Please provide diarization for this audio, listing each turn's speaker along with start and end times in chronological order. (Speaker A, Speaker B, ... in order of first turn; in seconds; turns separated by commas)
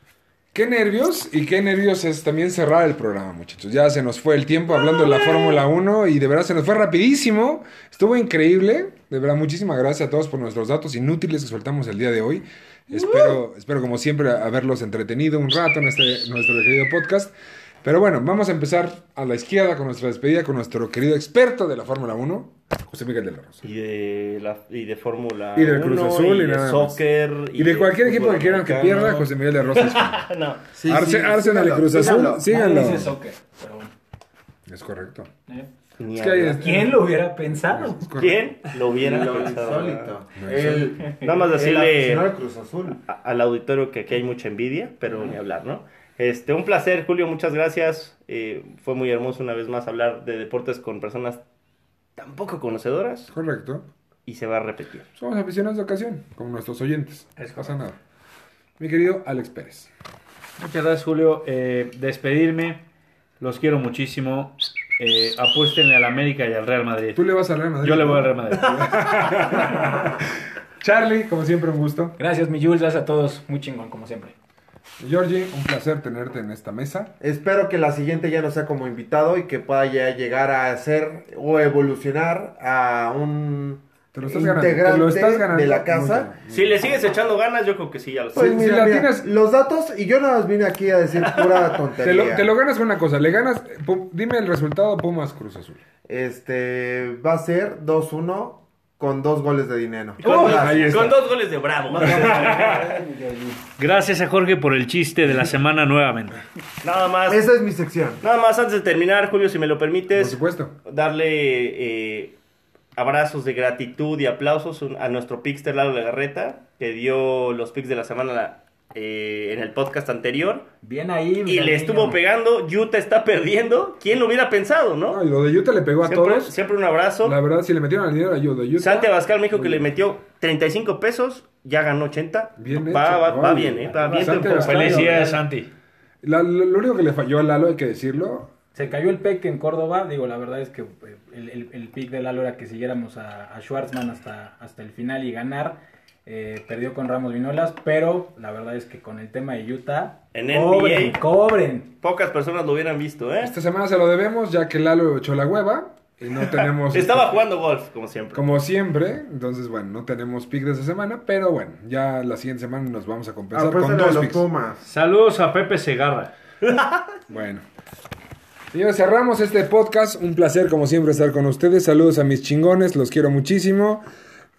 Speaker A: 0.5-17.3, Speaker A: 17.8-23.6, Speaker B: 23.6-30.6, Speaker A: 25.6-27.0, Speaker A: 27.5-30.3, Speaker C: 30.7-32.4, Speaker A: 30.9-33.2, Speaker D: 31.9-33.9, Speaker A: 34.7-35.3, Speaker B: 36.0-36.9, Speaker A: 36.1-38.6, Speaker D: 36.5-38.0, Speaker B: 38.2-42.3, Speaker C: 39.0-43.0, Speaker A: 40.4-41.0, Speaker B: 43.0-51.4, Speaker B: 52.2-53.3, Speaker A: 53.3-53.9, Speaker B: 54.3-55.1, Speaker A: 55.2-58.0, Speaker E: 57.4-57.7, Speaker A: 58.8-59.9, Speaker E: 60.6-62.8, Speaker E: 63.4-67.2, Speaker A: 67.2-70.3, Speaker E: 67.8-68.8, Speaker A: 70.8-72.2, Speaker D: 72.2-74.3, Speaker A: 75.0-77.1, Speaker C: 77.2-86.3, Speaker A: 84.1-86.9, Speaker B: 86.5-88.6, Speaker C: 88.3-92.5, Speaker A: 88.5-89.3, Speaker B: 91.2-91.7, Speaker A: 92.0-95.8, Speaker C: 96.1-101.1, Speaker B: 100.2-103.0, Speaker A: 100.2-101.2, Speaker D: 101.9-103.6, Speaker A: 102.0-102.9, Speaker E: 103.8-106.4, Speaker B: 106.8-107.4, Speaker C: 107.3-108.2, Speaker B: 108.2-112.4, Speaker A: 110.1-110.7, Speaker B: 113.0-120.7, Speaker D: 120.8-122.2, Speaker B: 121.5-125.2, Speaker A: 125.1-126.5, Speaker B: 126.0-127.4, Speaker A: 127.2-129.9, Speaker B: 128.8-135.3, Speaker A: 132.6-135.3, Speaker D: 133.9-135.3, Speaker E: 134.6-135.7, Speaker A: 136.2-138.5, Speaker D: 138.8-151.9, Speaker B: 150.3-151.2, Speaker B: 152.0-153.5, Speaker A: 153.4-157.5, Speaker B: 156.6-158.5, Speaker A: 158.3-164.4, Speaker C: 163.5-164.8, Speaker E: 164.8-166.3, Speaker B: 166.6-167.0, Speaker A: 167.3-167.6, Speaker A: 168.7-174.0